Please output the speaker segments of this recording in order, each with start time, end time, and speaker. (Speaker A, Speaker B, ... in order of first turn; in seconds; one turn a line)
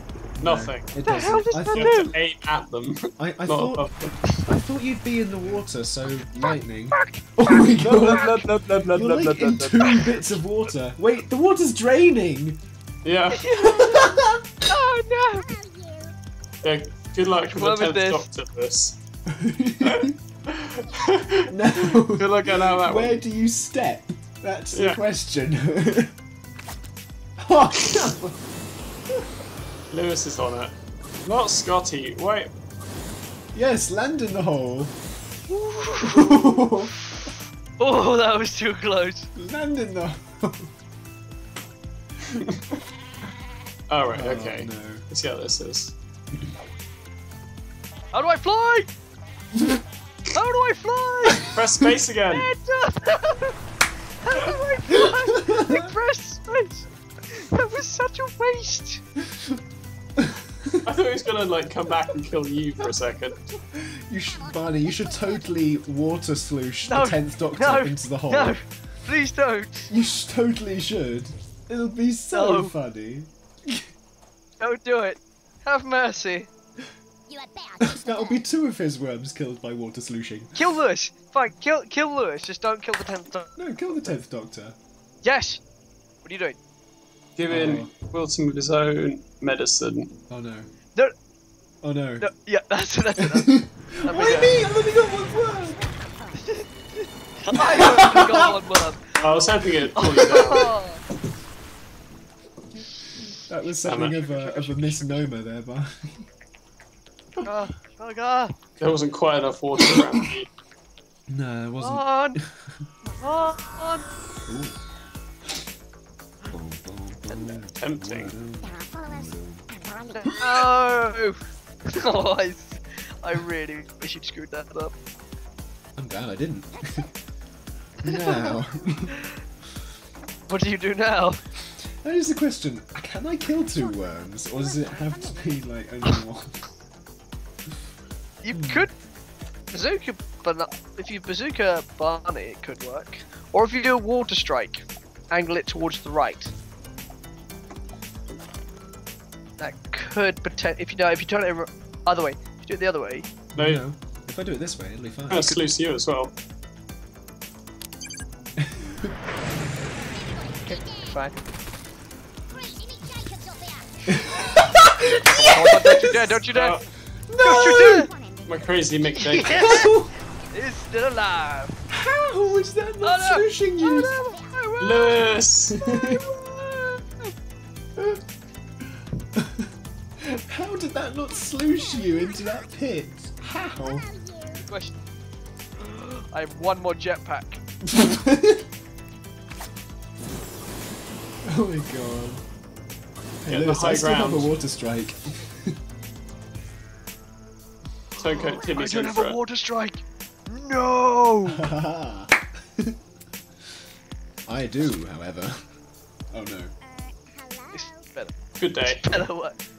Speaker A: 0.4-2.1
Speaker B: 0.4-4.2
Speaker C: 1.0-2.1
Speaker A: 3.2-12.6
Speaker C: 6.9-8.6
Speaker B: 8.0-9.7
Speaker C: 9.8-10.2
Speaker B: 13.0-13.5
Speaker C: 13.3-15.5
Speaker A: 13.6-14.7
Speaker D: 15.4-16.1
Speaker B: 16.6-19.0
Speaker C: 17.4-18.2
Speaker A: 19.2-20.2
Speaker B: 19.8-23.2
Speaker A: 21.4-26.1
Speaker B: 24.7-25.0
Speaker A: 27.4-28.4
Speaker B: 29.9-30.7
Speaker B: 31.2-32.5
Speaker A: 33.5-35.0
Speaker C: 35.5-36.7
Speaker A: 36.0-36.9
Speaker C: 37.8-39.3
Speaker A: 39.3-40.7
Speaker B: 42.3-42.6
Speaker B: 43.9-45.9
Speaker A: 44.1-45.0
Speaker C: 48.1-48.9
Speaker C: 50.3-51.5
Speaker A: 51.3-51.5
Speaker B: 51.5-52.5
Speaker C: 52.3-53.5
Speaker C: 54.2-59.0
Speaker A: 55.0-55.9
Speaker A: 60.2-60.8
Speaker B: 60.8-63.4
Speaker A: 63.7-68.6
Speaker D: 64.3-65.5
Speaker C: 66.8-69.9
Speaker A: 69.9-73.9
Speaker C: 72.3-72.7
Speaker C: 74.6-76.5
Speaker D: 77.3-78.5
Speaker A: 77.8-80.5
Speaker C: 80.5-83.5
Speaker A: 83.5-84.8
Speaker C: 85.2-85.6
Speaker C: 86.2-86.6
Speaker B: 87.3-90.1
Speaker A: 87.5-87.9
Speaker A: 90.3-90.7
Speaker A: 91.8-92.3
Speaker C: 92.2-94.6
Speaker A: 93.2-95.8
Speaker D: 94.2-96.6
Speaker C: 97.4-101.0
Speaker A: 97.5-98.5
Speaker B: 99.2-100.7
Speaker A: 100.2-100.5
Speaker A: 103.2-106.3
Speaker B: 103.8-104.6
Speaker C: 104.4-105.3
Speaker C: 107.4-108.5
Speaker B: 108.8-110.5
Speaker A: 110.0-110.2
Speaker A: 111.3-112.8
Speaker C: 111.8-112.4
Speaker D: 113.0-113.8
Speaker C: 113.2-114.0
Speaker A: 114.5-114.8
Speaker A: 116.5-119.7
Speaker B: 117.8-118.3
Speaker D: 118.6-120.4
Speaker C: 120.2-124.9
Speaker A: 126.0-127.1
Speaker D: 126.8-127.1
Speaker A: 128.0-129.1
Speaker C: 128.0-128.6
Speaker C: 130.5-131.4
Speaker A: 132.0-136.6
Speaker D: 133.7-135.7
Speaker C: 138.4-138.9
Speaker A: 138.5-138.9
Speaker C: 139.7-146.5
Speaker C: 149.6-153.3
Speaker A: 153.5-155.6
Speaker B: 153.6-153.8
Speaker B: 155.3-156.3
Speaker A: 158.6-159.1
Speaker D: 159.9-161.3
Speaker C: 160.7-161.3
Speaker D: 162.5-164.9
Speaker A: 164.1-166.4
Speaker C: 165.3-166.8
Speaker B: 166.5-166.8
Speaker A: 167.3-168.1
Speaker D: 167.3-169.9
Speaker C: 167.4-168.1
Speaker B: 168.5-169.8
Speaker C: 169.2-169.9
Speaker A: 169.5-170.1
Speaker C: 170.5-171.8
Speaker A: 171.9-174.2
Speaker C: 173.0-177.3
Speaker D: 173.8-174.6
Speaker B: 174.8-175.8
Speaker A: 175.7-176.2
Speaker A: 177.9-178.2
Speaker A: 178.8-184.1
Speaker D: 181.6-182.7
Speaker D: 183.8-184.7
Speaker C: 184.7-184.9
Speaker C: 185.8-187.6
Speaker A: 187.8-188.7
Speaker A: 191.4-192.4
Speaker A: 193.4-195.8
Speaker B: 193.5-194.5
Speaker C: 198.2-201.7
Speaker B: 198.2-199.4
Speaker A: 201.5-203.0
Speaker A: 204.4-205.7
Speaker A: 206.3-206.7
Speaker D: 206.8-208.1
Speaker C: 207.7-208.3
Speaker B: 208.6-209.0
Speaker C: 208.8-209.6